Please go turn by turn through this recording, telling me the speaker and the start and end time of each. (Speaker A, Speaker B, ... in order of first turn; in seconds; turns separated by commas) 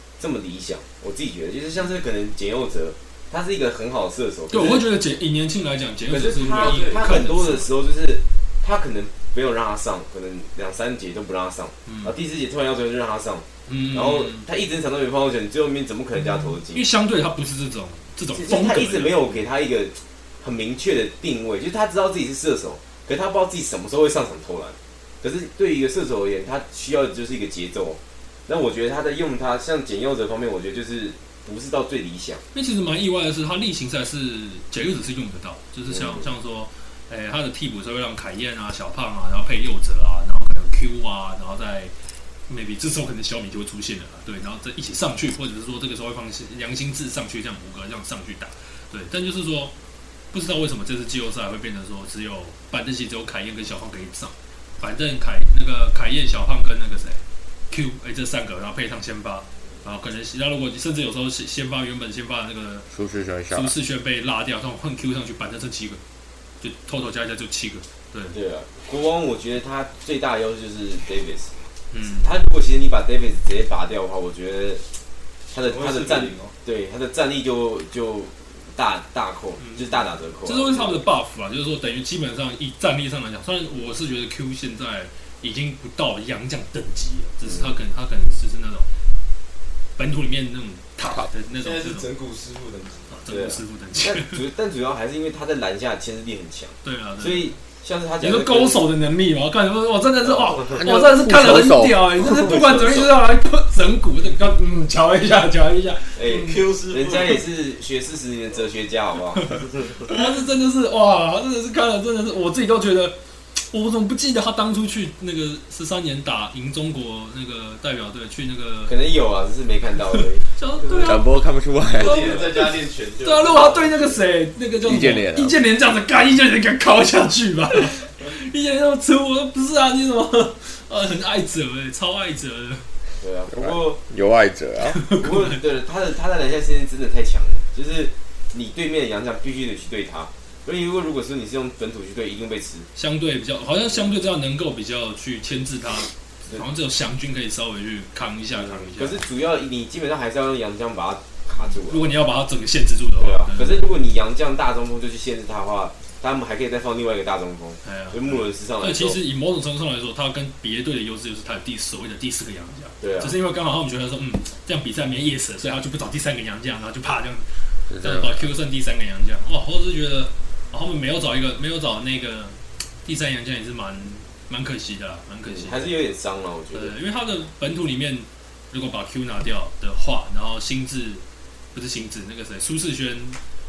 Speaker A: 0.2-4.9, Speaker B: 4.5-7.7, Speaker A: 6.1-16.9, Speaker C: 6.4-7.2, Speaker B: 11.9-12.1, Speaker B: 13.7-14.5, Speaker B: 16.4-19.4, Speaker A: 18.3-32.4, Speaker B: 32.5-41.9, Speaker A: 35.9-36.3, Speaker B: 42.5-49.7, Speaker B: 50.3-62.9, Speaker D: 62.9-63.7, Speaker B: 63.5-66.0, Speaker B: 66.6-68.4, Speaker A: 68.3-71.5, Speaker B: 71.9-72.3, Speaker A: 72.1-74.8, Speaker A: 75.5-81.0, Speaker C: 75.6-76.5, Speaker B: 79.6-88.9, Speaker A: 87.4-87.8, Speaker B: 90.0-92.1, Speaker C: 91.6-93.2, Speaker B: 93.1-94.4, Speaker A: 93.3-98.8, Speaker B: 96.8-97.5, Speaker B: 98.2-106.6, Speaker D: 100.6-102.3, Speaker A: 102.3-103.1, Speaker A: 106.2-109.9, Speaker C: 106.3-107.4, Speaker B: 110.0-119.0, Speaker A: 118.9-120.4, Speaker B: 120.5-121.3, Speaker C: 120.8-121.2, Speaker D: 121.0-122.3, Speaker C: 121.9-124.2, Speaker B: 122.0-132.8, Speaker D: 124.8-125.6, Speaker A: 133.2-134.0, Speaker D: 133.5-135.0, Speaker B: 134.9-135.6, Speaker A: 135.2-142.9, Speaker B: 142.9-149.2, Speaker A: 148.6-152.1, Speaker B: 151.9-153.9, Speaker A: 153.2-159.2, Speaker B: 157.8-175.9, Speaker A: 163.0-163.4, Speaker D: 167.9-168.5, Speaker A: 175.5-176.9, Speaker B: 176.7-181.2, Speaker B: 181.7-183.4